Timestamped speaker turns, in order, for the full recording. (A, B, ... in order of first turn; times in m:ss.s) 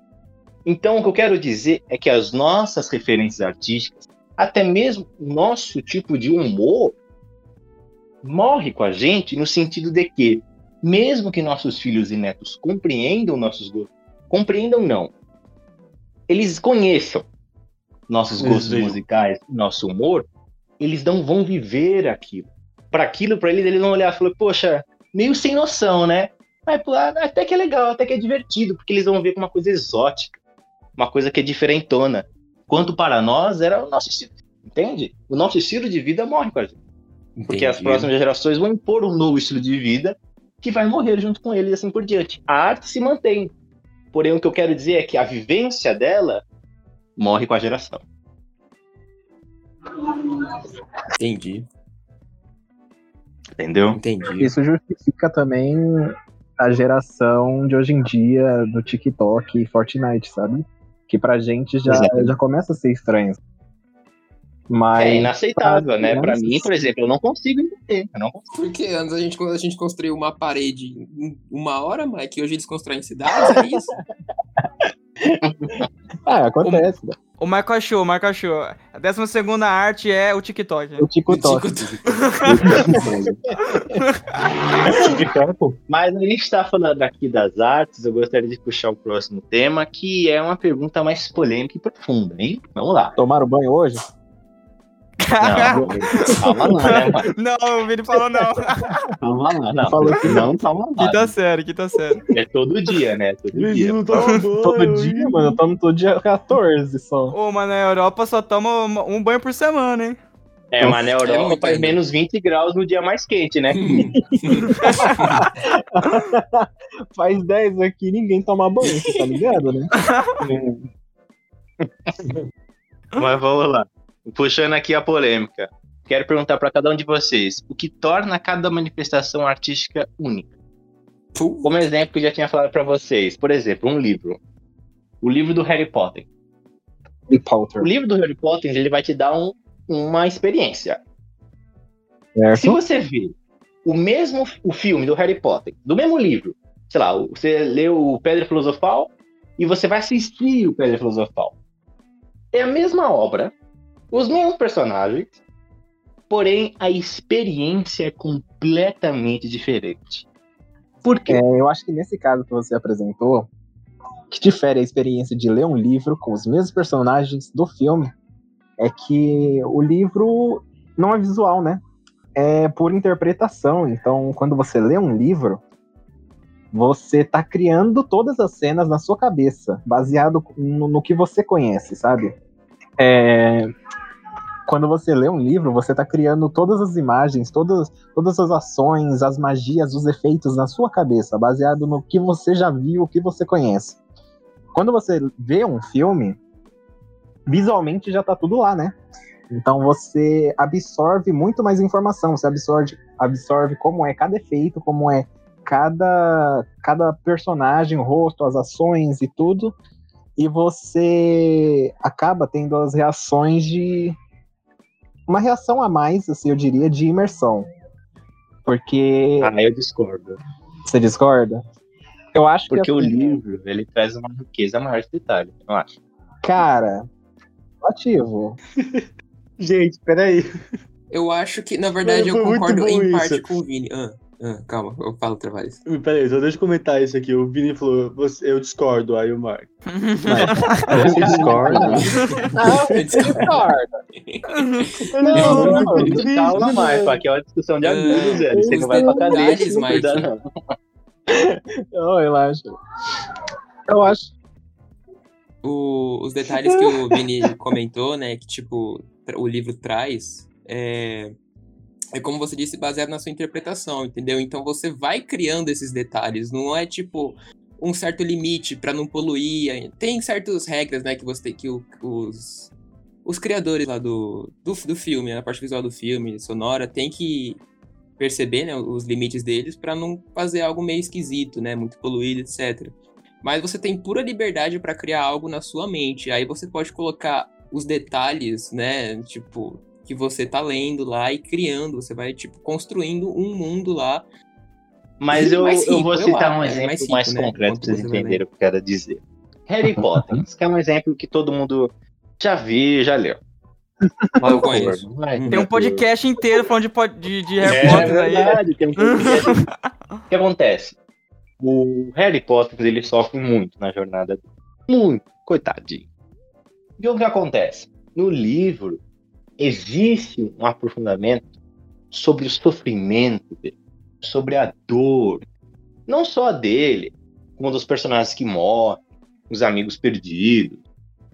0:00.6-0:07.0 A
0:08.2-0:15.1 A
0:16.3-0:17.2 A
0:18.1-0:20.3 A
0:18.4-0:19.0 B
0:20.8-0:30.4 A
0:31.0-0:36.8 A
0:37.4-0:43.5 A
0:37.5-0:38.1 C
0:44.1-0:46.4 A
0:47.2-0:48.0 A
0:51.2-0:51.6 C
0:53.6-0:54.0 A
0:53.9-0:54.5 C
0:54.4-1:03.4 D
1:01.9-1:02.3 A
1:04.7-1:06.9 D
1:05.0-1:08.4 A
1:08.5-1:13.9 C
1:15.4-1:15.9 A
1:16.3-1:17.1 D
1:17.4-1:21.1 E
1:21.0-1:21.7 D
1:21.3-1:23.1 C
1:22.4-1:23.3 D
1:22.4-1:23.4 A
1:23.6-1:24.2 E
1:24.9-1:25.3 A
1:25.0-1:25.8 B
1:25.9-1:33.1 A
1:33.2-1:34.0 D
1:35.2-1:36.3 E
1:35.4-1:37.3 A
1:37.3-1:38.9 E
1:39.2-1:41.3 A
1:39.8-1:40.5 D
1:41.0-1:42.2 E
1:42.3-1:44.0 A
1:43.5-1:45.6 B
1:44.6-1:47.4 D
1:47.3-1:50.2 E
1:50.7-1:54.1 A
1:51.2-1:52.0 C
1:53.8-1:55.4 C
1:54.7-1:55.2 E
1:54.8-1:59.9 D
1:58.8-1:59.3 C
2:00.0-2:00.4 E
2:00.4-2:00.9 A
2:03.2-2:10.5 A
2:11.3-2:11.8 C
2:11.6-2:14.4 A
2:15.2-2:16.3 A
2:17.3-2:17.9 D
2:17.8-2:21.0 A
2:22.4-2:22.8 D
2:22.5-2:23.3 A
2:23.8-2:31.5 A
2:32.5-2:33.5 A
2:34.1-2:35.4 A
2:36.3-2:40.2 A
2:41.0-2:41.4 A
2:41.3-2:43.5 D
2:44.3-2:48.1 D
2:48.8-2:51.8 D
2:52.3-2:55.6 D
2:56.7-3:02.3 D
3:03.0-3:03.7 D
3:04.7-3:14.0 D
3:14.7-3:16.4 D
3:17.5-3:18.9 D
3:19.5-3:29.8 D
3:30.4-3:34.2 D
3:35.3-3:37.7 D
3:38.6-3:39.5 D
3:39.4-3:40.4 A
3:40.9-3:41.6 D
3:42.3-3:43.4 D
3:42.7-3:45.9 A
3:46.4-3:47.1 D
3:47.8-3:48.6 D
3:48.8-3:49.0 B
3:49.6-3:50.5 B
3:51.1-3:55.8 C
3:52.0-3:53.4 B
3:55.8-3:59.7 B
3:59.9-4:00.9 E
4:00.3-4:02.1 B
4:00.9-4:02.0 A
4:00.9-4:02.0 D
4:02.0-4:03.6 C
4:02.6-4:03.9 D
4:03.1-4:03.4 B
4:04.2-4:06.2 C
4:05.1-4:07.2 B
4:05.2-4:06.7 D
4:05.3-4:10.4 A
4:07.8-4:10.3 C
4:08.2-4:09.1 B
4:11.5-4:12.7 D
4:13.9-4:14.3 D
4:15.6-4:21.4 C
4:16.5-4:16.9 D
4:22.1-4:32.7 C
4:33.2-4:37.6 C
4:38.2-4:54.2 C
4:55.2-5:03.4 A
4:55.3-4:58.4 C
4:59.8-5:00.4 D
5:04.4-5:06.0 A
5:04.4-5:05.6 C
5:05.5-5:09.6 E
5:07.6-5:09.7 A
5:10.3-5:11.0 A
5:11.6-5:16.1 A
5:17.0-5:19.0 A
5:19.6-5:21.5 A
5:22.1-5:25.4 A
5:26.1-5:30.8 A